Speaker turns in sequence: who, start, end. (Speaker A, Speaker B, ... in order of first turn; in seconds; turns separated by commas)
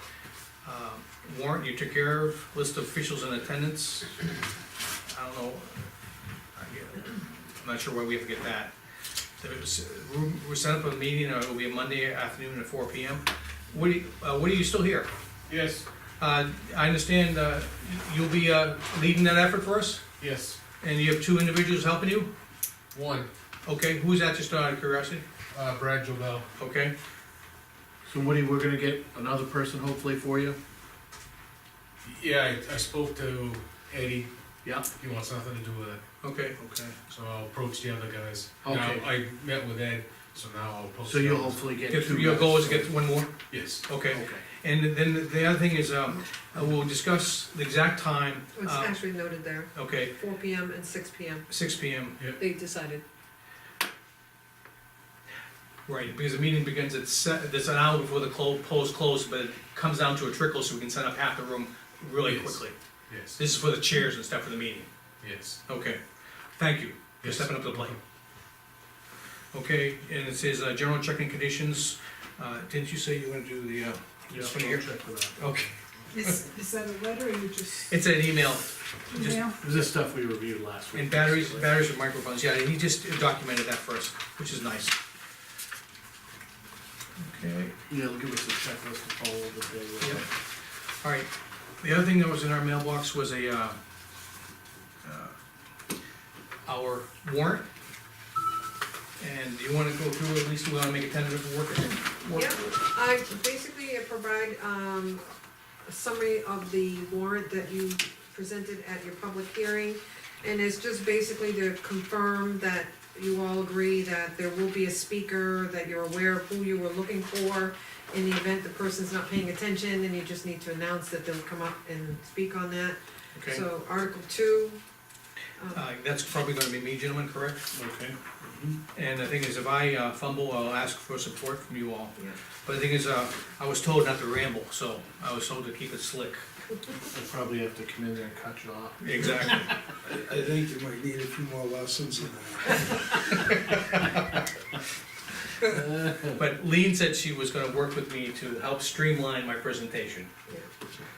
Speaker A: 0.6-4.1, Speaker A: 5.0-5.8, Speaker A: 6.5-8.7, Speaker A: 9.4-15.1, Speaker B: 15.5-15.8, Speaker A: 16.2-20.0, Speaker B: 20.2-20.6, Speaker A: 20.8-22.3, Speaker B: 22.9-23.3, Speaker A: 23.6-25.2, Speaker B: 25.5-26.5, Speaker A: 26.6-26.9, Speaker C: 28.1-30.6, Speaker B: 32.0-34.3, Speaker C: 34.6-34.9, Speaker B: 34.8-36.0, Speaker A: 36.2-36.9, Speaker B: 37.0-41.7, Speaker C: 38.6-39.1, Speaker C: 41.0-42.9, Speaker A: 41.9-43.3, Speaker B: 43.5-43.8, Speaker A: 43.8-49.0, Speaker C: 44.1-44.4, Speaker D: 48.5-51.5, Speaker A: 49.7-50.1, Speaker A: 51.5-52.2, Speaker D: 52.4-53.0, Speaker A: 55.9-62.7, Speaker B: 62.2-63.4, Speaker A: 63.4-64.9, Speaker B: 65.2-65.6, Speaker A: 65.7-66.0, Speaker A: 66.5-68.0, Speaker B: 67.2-68.0, Speaker A: 69.5-74.8, Speaker C: 74.3-75.3, Speaker A: 75.4-75.7, Speaker E: 76.1-77.9, Speaker A: 77.9-79.5, Speaker E: 79.1-79.6, Speaker C: 79.5-81.7, Speaker A: 80.9-85.0, Speaker A: 87.2-87.7, Speaker C: 87.9-90.2, Speaker A: 91.0-91.3, Speaker A: 91.8-93.8, Speaker A: 95.0-95.3, Speaker A: 96.7-97.7, Speaker A: 99.2-102.7, Speaker D: 102.3-105.2, Speaker D: 105.8-124.8, Speaker A: 123.3-123.6, Speaker A: 125.7-127.7, Speaker C: 127.7-128.8, Speaker A: 128.9-136.4, Speaker C: 137.1-139.6, Speaker A: 139.0-139.8, Speaker F: 140.0-143.0, Speaker C: 145.7-146.4, Speaker A: 146.3-150.3